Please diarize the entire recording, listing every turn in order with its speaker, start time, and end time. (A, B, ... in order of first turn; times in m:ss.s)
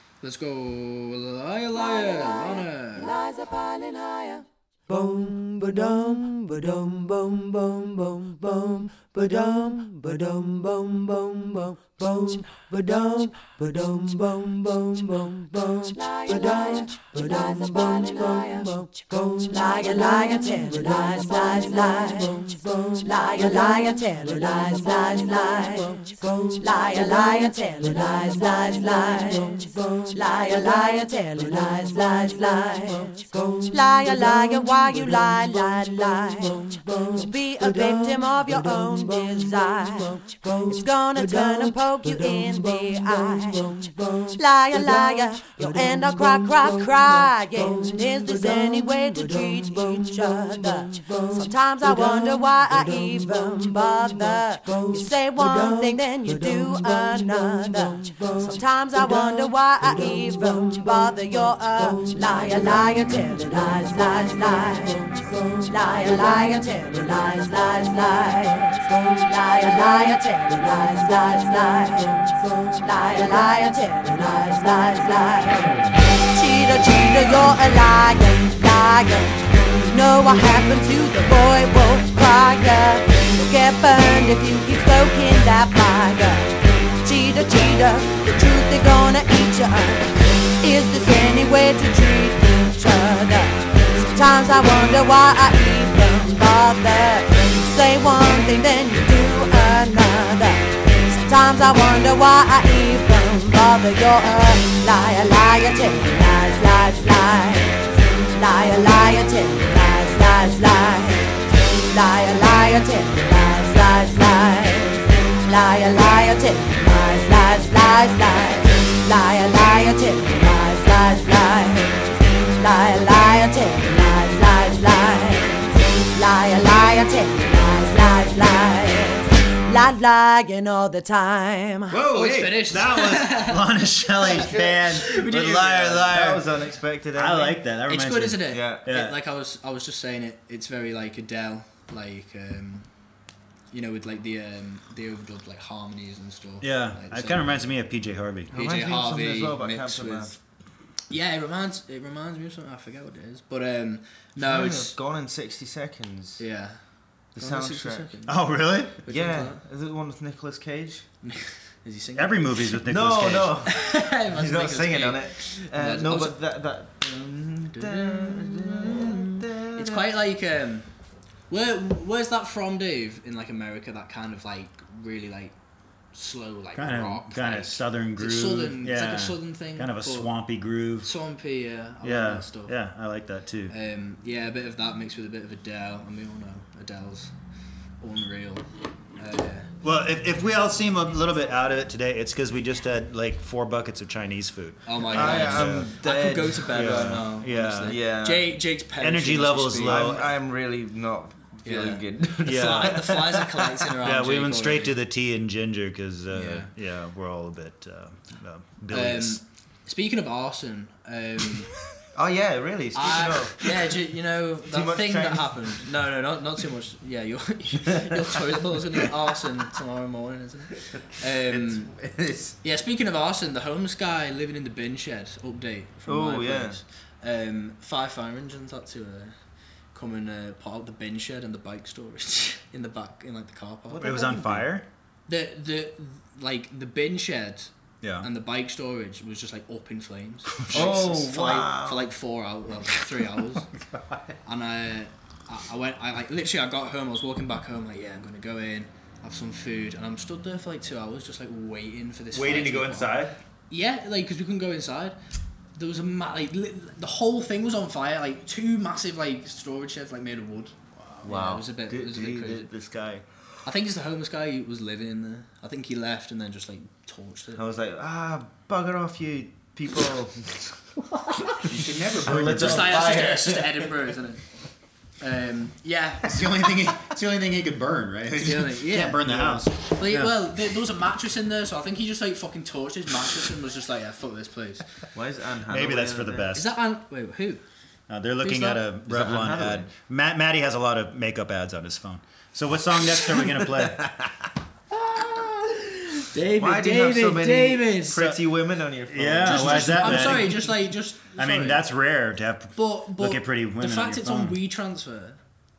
0:00.2-0:03.1 A
0:03.0-0:07.5 B
0:08.3-0:14.5 B
0:15.7-0:43.8 B
0:44.4-2:12.0 B
2:11.9-2:16.5 C
2:12.1-2:13.6 A
2:14.2-2:16.2 A
2:16.0-2:17.6 D
2:17.1-2:19.2 C
2:17.8-2:22.9 A
2:18.5-2:18.8 D
2:23.7-2:27.7 A
2:26.6-2:28.5 C
2:28.5-2:30.4 D
2:28.5-2:30.4 A
2:31.1-2:35.0 A
2:34.4-2:36.4 D
2:36.4-2:39.6 A
2:37.3-2:38.2 D
2:38.3-2:39.0 C
2:39.1-2:41.0 D
2:41.2-2:42.8 A
2:42.1-2:43.6 C
2:42.8-2:50.1 D
2:43.6-2:46.4 A
2:47.6-2:50.9 A
2:51.5-2:55.5 A
2:56.1-3:00.3 A
2:56.7-3:01.1 C
3:01.0-3:02.7 A
3:02.0-3:03.7 C
3:03.7-3:07.3 A
3:08.0-3:08.6 A
3:09.2-3:09.7 A
3:09.8-3:15.9 C
3:14.8-3:20.2 A
3:15.1-3:18.6 D
3:16.7-3:18.0 C
3:19.0-3:20.3 C
3:19.8-3:23.4 D
3:21.6-3:25.0 A
3:22.4-3:23.1 C
3:24.0-3:29.4 C
3:26.3-3:26.7 A
3:28.9-3:31.7 A
3:32.1-3:33.9 D
3:32.9-3:42.0 A
3:34.7-3:35.8 D
3:41.4-3:42.6 D
3:42.6-3:49.4 A
3:46.0-3:46.8 D
3:49.9-3:54.4 A
3:53.9-3:54.7 D
3:54.0-3:54.8 C
3:55.3-4:03.7 A
3:58.0-3:58.3 C
4:00.7-4:01.0 C
4:00.7-4:02.1 D
4:03.8-4:04.4 C
4:04.4-4:15.2 A
4:12.3-4:13.4 C
4:15.7-4:22.7 A
4:21.2-4:23.4 D
4:23.6-4:27.6 A
4:27.5-4:30.8 D
4:31.6-4:33.1 C
4:31.6-4:33.9 D
4:32.3-4:34.4 A
4:35.2-4:36.4 A
4:36.2-4:40.3 C
4:38.4-4:44.8 A
4:39.2-4:39.6 D
4:45.1-4:46.5 D
4:45.7-4:46.7 C
4:46.5-4:47.6 A
4:48.1-4:54.1 C
4:48.4-4:48.8 A
4:49.0-4:49.9 D
4:55.1-4:58.3 A
4:56.5-5:00.6 D
4:59.1-5:04.6 C
4:59.4-5:01.8 A
5:02.8-5:05.4 A